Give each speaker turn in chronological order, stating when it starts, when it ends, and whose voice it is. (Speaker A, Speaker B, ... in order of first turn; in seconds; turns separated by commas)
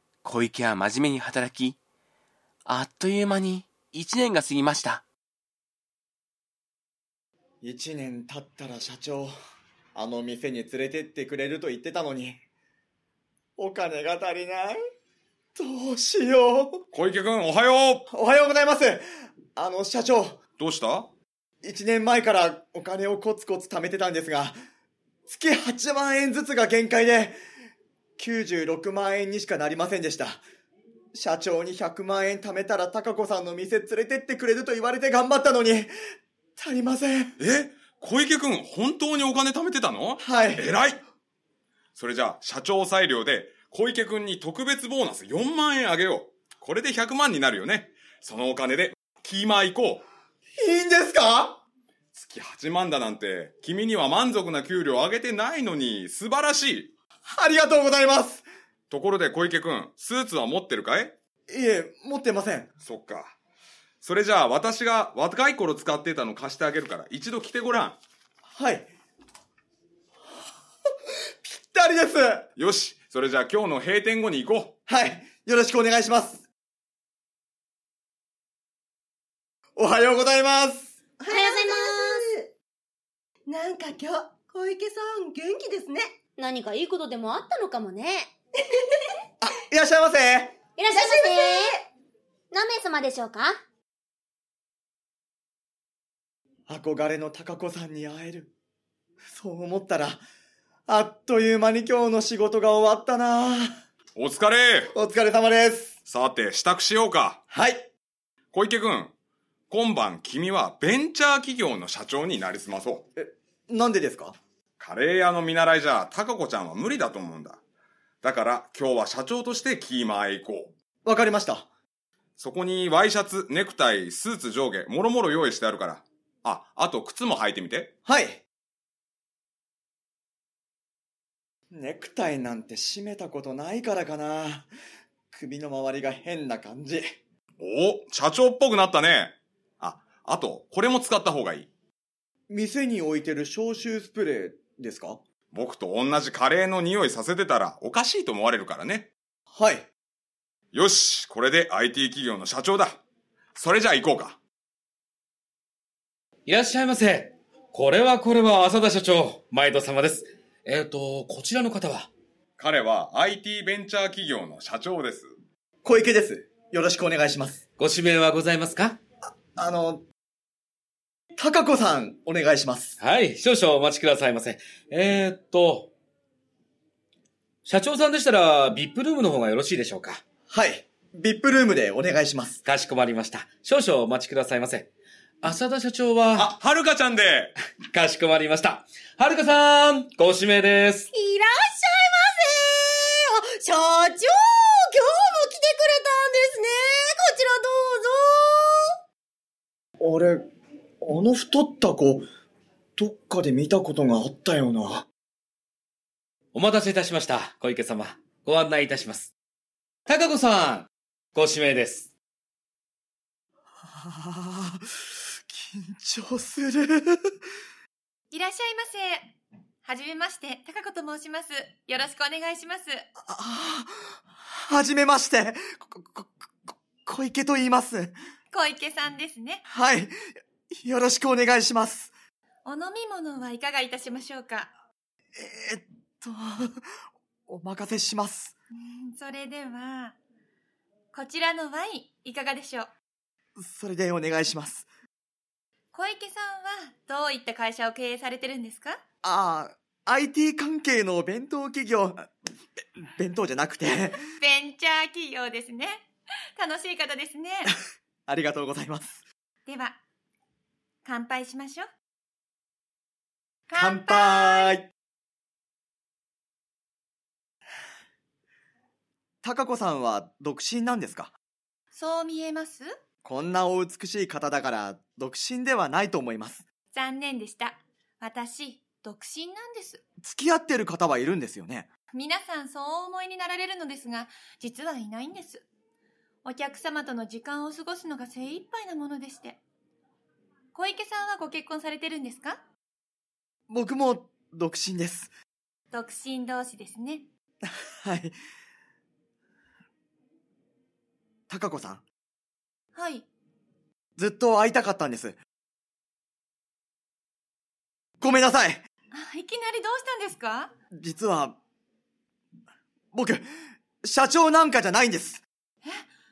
Speaker A: 0.2-1.8, Speaker A: 2.7-5.0, Speaker B: 7.6-9.3, Speaker B: 9.9-12.4, Speaker B: 13.6-14.8, Speaker B: 15.6-16.8, Speaker C: 16.9-18.1, Speaker B: 18.1-19.0, Speaker B: 19.6-20.4, Speaker C: 20.6-21.1, Speaker B: 21.6-24.6, Speaker B: 25.3-27.4, Speaker B: 28.2-30.4, Speaker B: 31.1-35.9, Speaker B: 36.6-37.4, Speaker C: 37.4-41.0, Speaker B: 40.2-40.7, Speaker C: 42.0-50.1, Speaker B: 50.6-51.6, Speaker C: 52.1-56.9, Speaker B: 57.3-58.5, Speaker C: 58.9-61.1, Speaker B: 61.5-62.7, Speaker C: 62.8-63.4, Speaker C: 64.0-68.0, Speaker B: 68.5-68.9, Speaker B: 71.4-72.5, Speaker C: 72.6-74.8, Speaker B: 74.9-76.5, Speaker B: 79.8-81.0, Speaker D: 81.2-82.5, Speaker E: 81.3-82.2, Speaker D: 83.5-86.2, Speaker E: 86.4-88.3, Speaker B: 89.4-90.6, Speaker E: 90.8-91.7, Speaker D: 90.9-91.8, Speaker E: 92.5-93.6, Speaker B: 96.7-98.5, Speaker B: 99.2-100.2, Speaker B: 100.9-103.8, Speaker C: 104.2-104.9, Speaker B: 104.9-106.0, Speaker C: 106.1-107.4, Speaker B: 107.5-107.9, Speaker C: 108.5-109.1, Speaker C: 109.7-113.1, Speaker B: 113.2-114.4, Speaker C: 114.8-117.6, Speaker C: 118.2-120.7, Speaker B: 121.0-121.7, Speaker C: 122.4-127.9, Speaker B: 128.1-128.4, Speaker B: 131.7-134.7, Speaker B: 135.3-137.2, Speaker C: 137.6-141.7, Speaker B: 142.5-145.2, Speaker C: 145.5-149.1, Speaker B: 149.5-149.9, Speaker C: 150.7-153.0, Speaker C: 153.6-154.4, Speaker F: 156.5-162.1, Speaker C: 162.6-165.3, Speaker B: 165.8-167.6, Speaker F: 167.8-169.0, Speaker B: 169.3-170.0, Speaker B: 171.4-173.0, Speaker F: 173.0-175.9, Speaker F: 177.7-180.2, Speaker B: 180.5-182.6, Speaker F: 182.7-184.9, Speaker F: 185.4-186.5, Speaker C: 186.3-187.5, Speaker F: 187.9-191.1, Speaker G: 191.1-198.9, Speaker B: 200.0-200.5, Speaker B: 201.0-202.3, Speaker B: 203.0-205.1, Speaker F: 206.5-209.3, Speaker F: 210.1-212.1, Speaker B: 213.8-217.3, Speaker H: 218.3-223.1, Speaker B: 223.2-228.1, Speaker H: 228.5-229.6, Speaker B: 229.7-230.1, Speaker B: 230.7-232.1, Speaker H: 232.7-234.7, Speaker B: 235.4-236.8, Speaker B: 237.5-238.6, Speaker H: 238.7-240.2, Speaker H: 241.1-242.9, Speaker B: 243.6-244.9, Speaker H: 245.9-249.0, Speaker B: 249.2-252.3, Speaker B: 253.0-254.2, Speaker H: 254.4-257.7, Speaker B: 258.3-259.2, Speaker H: 259.7-260.0, Speaker H: 261.1-261.9, Speaker H: 263.7-264.8, Speaker B: 263.8-264.9, Speaker B: 269.4-271.3, Speaker H: 271.9-272.9, Speaker B: 273.2-276.6, Speaker H: 276.9-280.0, Speaker B: 280.2-281.9, Speaker H: 282.1-285.6, Speaker H: 286.4-289.6, Speaker H: 290.7-292.6, Speaker B: 293.7-295.3, Speaker H: 295.9-297.3, Speaker B: 297.7-298.4, Speaker B: 301.5-302.0, Speaker H: 302.9-303.3, Speaker B: 304.2-305.4, Speaker B: 308.2-308.8, Speaker H: 309.1-310.7, Speaker B: 310.9-311.6, Speaker B: 313.1-313.5, Speaker B: 314.0-315.4